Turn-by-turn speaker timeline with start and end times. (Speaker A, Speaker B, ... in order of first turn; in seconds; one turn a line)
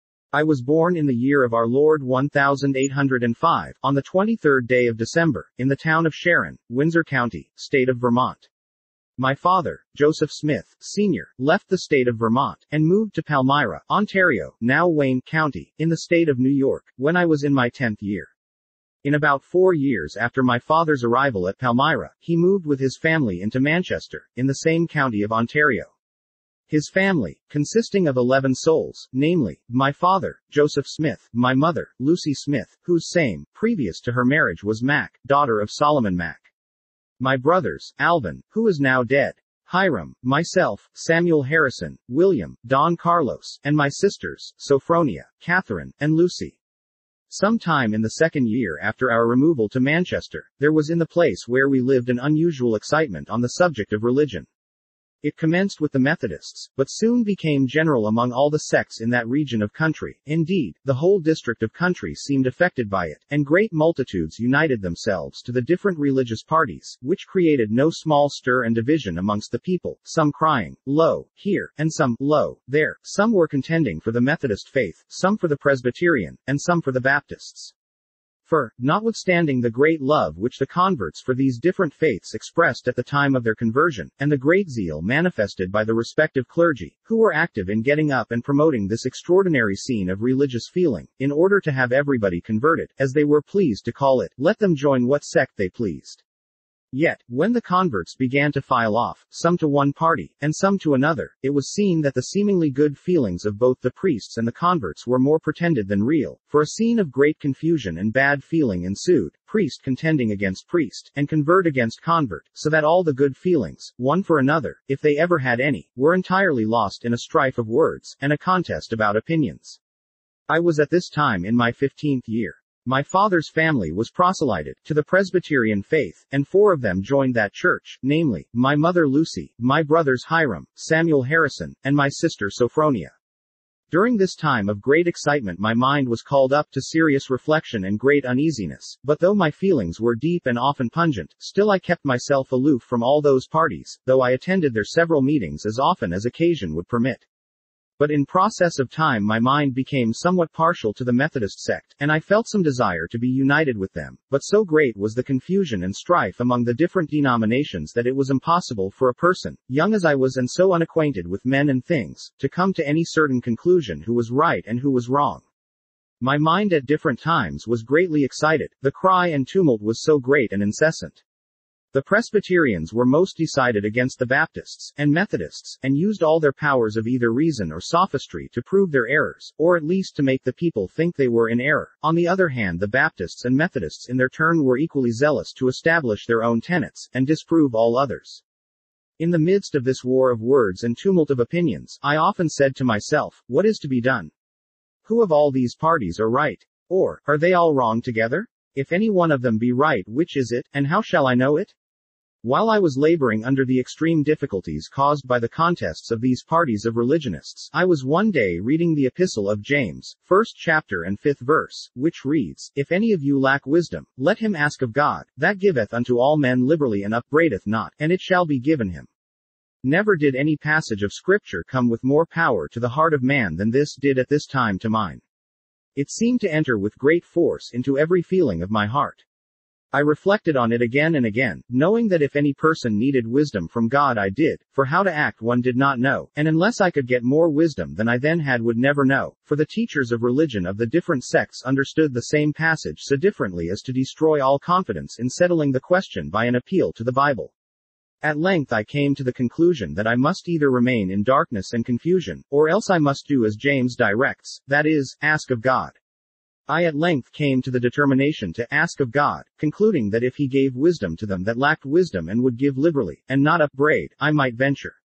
Speaker A: 0.3-8.5
Speaker A: 9.2-18.3
Speaker A: 19.0-25.9
Speaker A: 26.7-36.5
Speaker A: 37.2-46.6
Speaker A: 47.3-54.5
Speaker A: 55.2-77.7
Speaker A: 78.5-96.2
Speaker A: 96.9-119.8
Speaker A: 120.5-133.1
Speaker A: 133.9-147.2
Speaker A: 148.0-165.4
Speaker A: 166.2-171.2
Speaker A: 171.9-188.4
Speaker A: 189.2-194.3
Speaker A: 195.0-201.7
Speaker A: 202.4-219.1
Speaker A: 219.8-225.2
Speaker A: 225.9-229.2
Speaker A: 229.9-247.5
Speaker A: 248.2-256.0
Speaker A: 256.7-265.0